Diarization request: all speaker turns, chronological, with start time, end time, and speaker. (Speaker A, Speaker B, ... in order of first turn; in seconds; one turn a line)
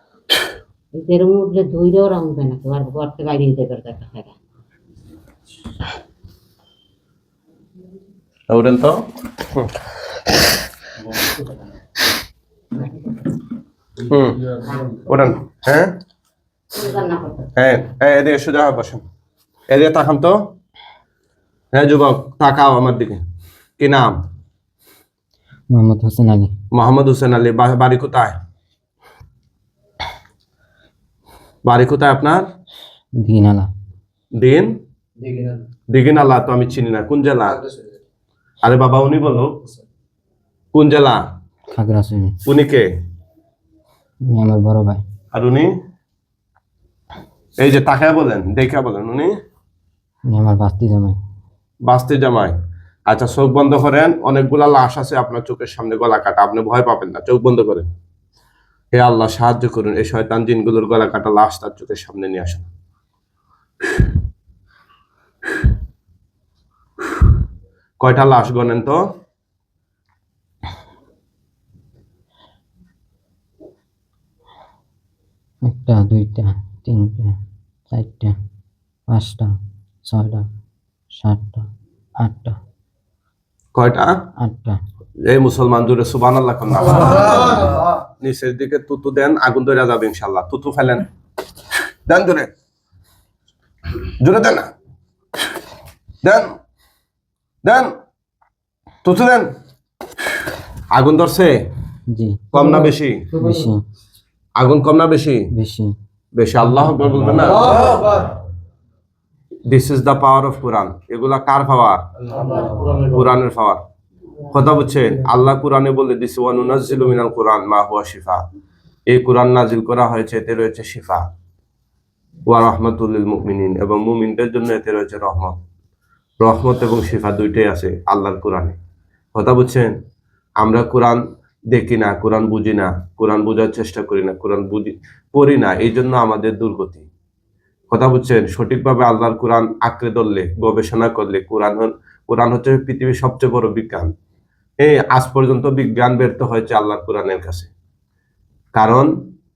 Speaker A: 0.9-4.3
Speaker B: 8.5-9.7
Speaker C: 11.0-11.7
Speaker B: 14.1-16.0
Speaker A: 16.7-17.8
Speaker B: 17.6-19.0
Speaker B: 19.7-20.5
Speaker B: 21.7-23.2
Speaker B: 23.8-24.2
Speaker D: 25.7-26.5
Speaker B: 26.7-28.4
Speaker B: 31.6-32.5
Speaker D: 33.2-33.7
Speaker B: 34.4-34.7
Speaker C: 35.2-35.7
Speaker B: 35.9-37.6
Speaker C: 37.5-38.0
Speaker B: 38.6-39.6
Speaker B: 40.7-41.2
Speaker D: 41.7-42.4
Speaker B: 42.5-42.9
Speaker D: 44.3-45.0
Speaker B: 45.3-45.7
Speaker B: 47.6-49.3
Speaker D: 50.3-51.2
Speaker B: 51.9-52.5
Speaker B: 53.1-57.9
Speaker B: 58.9-62.7
Speaker B: 68.0-69.0
Speaker D: 75.6-77.4
Speaker D: 77.9-78.4
Speaker D: 79.1-80.5
Speaker D: 81.1-81.7
Speaker D: 82.2-82.6
Speaker B: 83.7-84.2
Speaker D: 84.4-84.8
Speaker B: 85.2-91.0
Speaker B: 92.1-92.5
Speaker B: 94.2-94.7
Speaker B: 96.2-96.5
Speaker B: 97.6-97.9
Speaker B: 99.0-99.5
Speaker B: 100.9-101.7
Speaker D: 102.1-103.8
Speaker B: 102.5-103.3
Speaker B: 104.6-105.5
Speaker D: 105.5-106.0
Speaker B: 106.4-108.0
Speaker C: 107.3-108.3
Speaker B: 109.7-112.0
Speaker C: 112.2-113.3
Speaker A: 112.5-112.8
Speaker B: 113.1-113.8
Speaker B: 114.5-118.4
Speaker B: 119.1-121.3
Speaker B: 122.5-125.6
Speaker B: 126.4-128.8
Speaker B: 129.3-129.9
Speaker B: 130.6-137.1
Speaker B: 137.9-144.1
Speaker B: 144.8-147.7
Speaker B: 148.7-149.1